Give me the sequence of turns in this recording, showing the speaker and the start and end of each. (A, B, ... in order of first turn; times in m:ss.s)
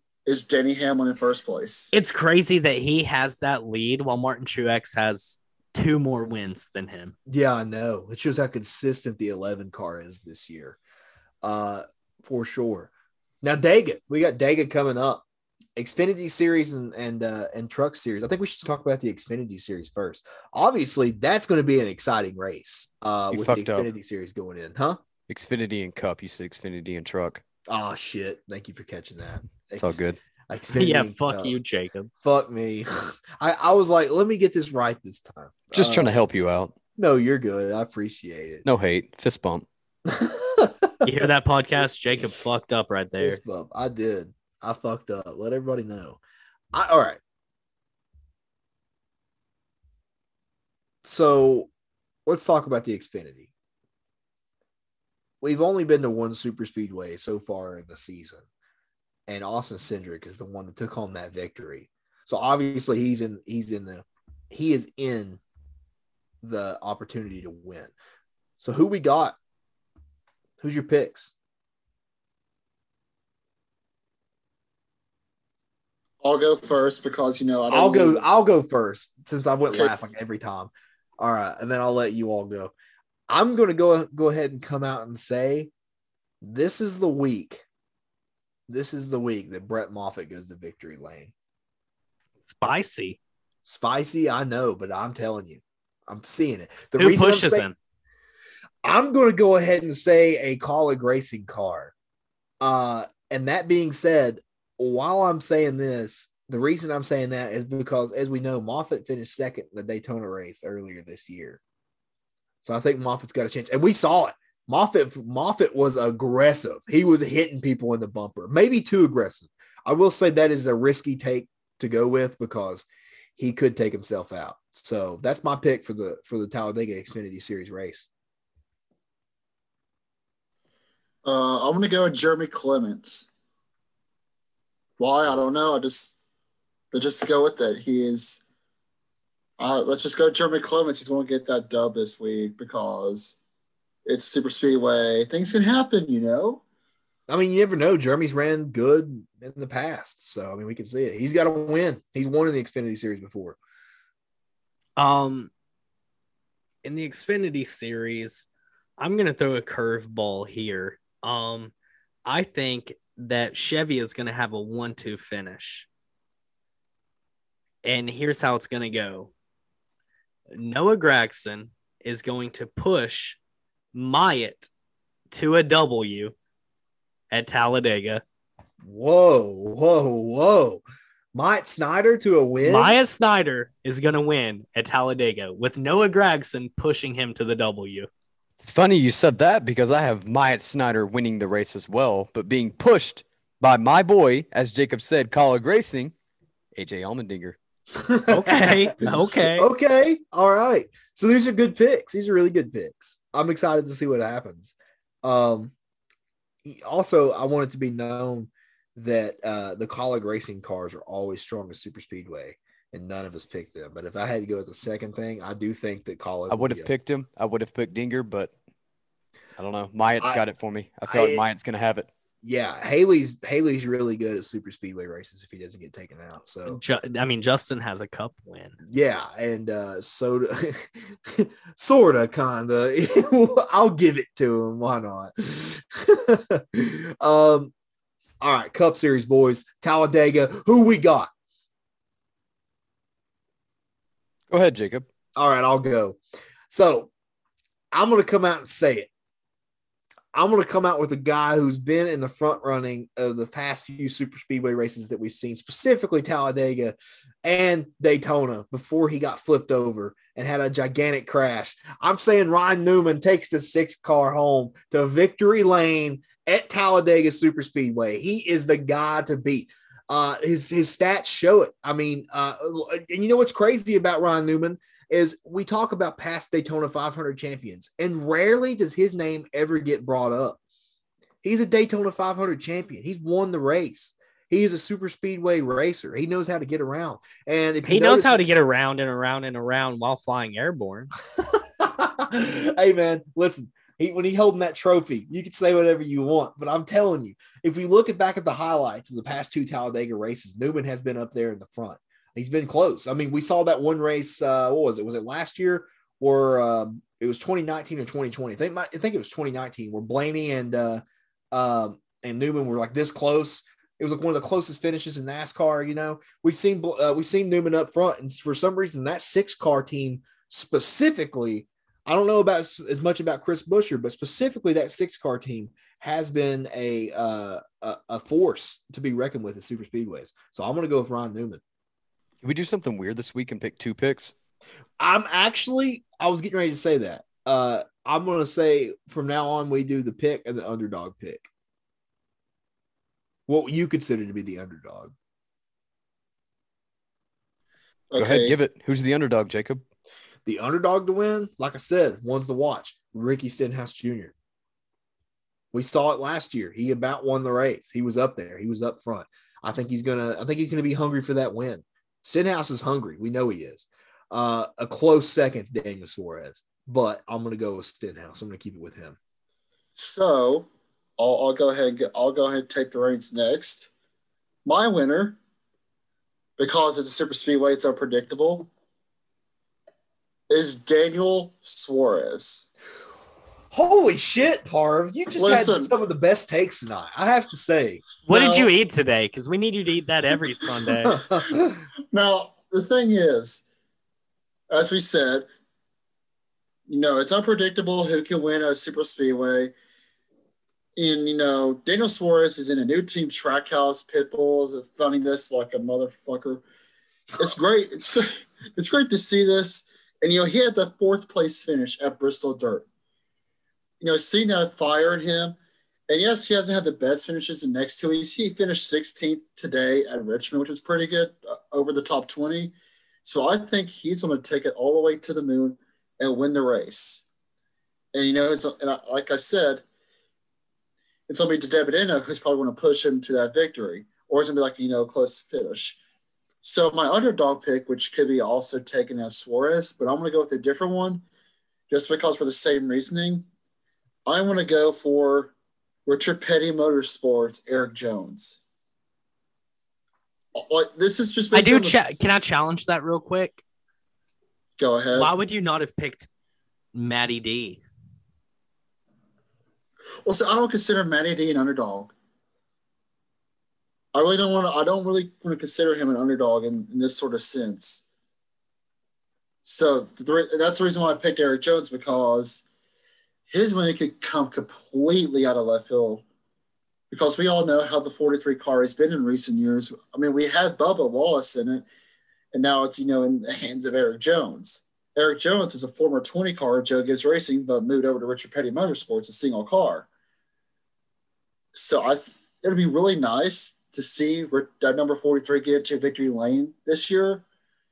0:00.3-0:01.9 A
0:01.9-0:07.2 B
0:07.3-0:10.8 C
0:11.4-0:12.9 C
0:13.4-0:15.2 C
0:15.8-0:25.0 C
0:23.3-0:23.9 D
0:25.3-0:27.4 D
0:27.7-0:30.0 C
0:29.8-0:30.2 D
0:30.5-0:31.6 C
0:30.7-0:32.1 B
0:32.2-0:36.2 C
0:35.7-0:36.8 D
0:37.0-0:38.6 C
0:38.6-0:39.6 D
0:40.1-0:41.0 C
0:41.0-0:43.4 B
0:43.2-0:46.2 C
0:46.7-0:47.2 C
0:51.0-0:51.7 C
0:52.3-0:53.5 C
0:55.4-0:58.4 C
0:59.3-1:05.4 C
1:06.4-1:07.9 C
1:08.6-1:09.4 C
1:10.6-1:11.3 C
1:16.2-1:18.2 A
1:17.7-1:22.7 C
1:23.3-1:25.7 C
1:26.4-1:27.6 C
1:28.7-1:31.3 C
1:32.4-1:33.2 B
1:33.6-1:37.7 C
1:37.0-1:37.8 B
1:38.8-1:41.9 C
1:42.6-1:51.6 C
1:52.6-2:02.9 C
2:03.4-2:08.1 C
2:11.2-2:13.3 A
2:15.0-2:16.2 A
2:16.9-2:18.4 A
2:19.6-2:23.4 A
2:24.0-2:26.6 A
2:27.3-2:33.6 C
2:35.0-2:35.5 B
2:36.8-2:41.7 B
2:42.3-2:45.9 B
2:47.8-2:49.3 B
2:50.5-2:53.4 B
2:53.9-2:54.7 B
2:55.3-2:56.3 B
2:57.3-2:58.2 B
2:58.8-3:00.8 C
3:01.3-3:03.0 C
3:02.6-3:08.1 B
3:08.6-3:16.1 D
3:16.8-3:17.6 D
3:18.0-3:25.7 C
3:18.3-3:19.7 B
3:26.6-3:36.9 C
3:36.5-3:38.5 D
3:39.6-3:42.1 D
3:41.1-3:41.4 C
3:42.4-3:46.8 C
3:46.7-3:48.8 B
3:48.8-3:57.7 C
3:58.4-4:01.3 C
4:04.5-4:05.1 D
4:05.4-4:06.2 C
4:06.7-4:07.1 C
4:07.9-4:09.1 C
4:10.3-4:40.6 C
4:41.4-4:48.4 C
4:47.9-4:51.1 B
4:51.4-5:31.6 C
5:32.4-5:34.3 D
5:35.0-5:41.5 C
5:43.5-5:45.1 C
5:48.1-5:48.6 A
5:48.2-5:49.8 D
5:50.4-5:54.3 C
5:55.7-6:09.2 C
6:10.0-6:13.9 A
6:14.6-6:15.4 A
6:16.6-6:18.7 A
6:20.5-6:22.7 A
6:23.7-6:28.7 C
6:25.4-6:25.9 A
6:28.3-6:31.2 B
6:31.0-6:31.8 C
6:32.1-6:33.6 A
6:34.7-6:35.5 A
6:36.9-6:39.7 A
6:41.0-6:46.6 A
6:47.4-6:52.9 A
6:54.0-6:55.6 A
6:56.1-7:07.2 A
7:08.1-7:09.8 A
7:11.3-7:16.0 A
7:16.6-7:21.2 A
7:21.9-7:23.5 A
7:24.3-7:25.5 A
7:26.1-7:28.6 A
7:30.6-7:32.2 A
7:31.5-7:33.6 B
7:34.8-7:35.3 A
7:35.1-7:36.3 B
7:36.9-7:37.8 B
7:40.2-7:42.1 A
7:44.1-7:48.1 A
7:49.6-7:52.7 A
7:53.5-7:56.2 A
7:57.1-8:01.9 A
8:02.5-8:10.1 A
8:11.7-8:17.4 A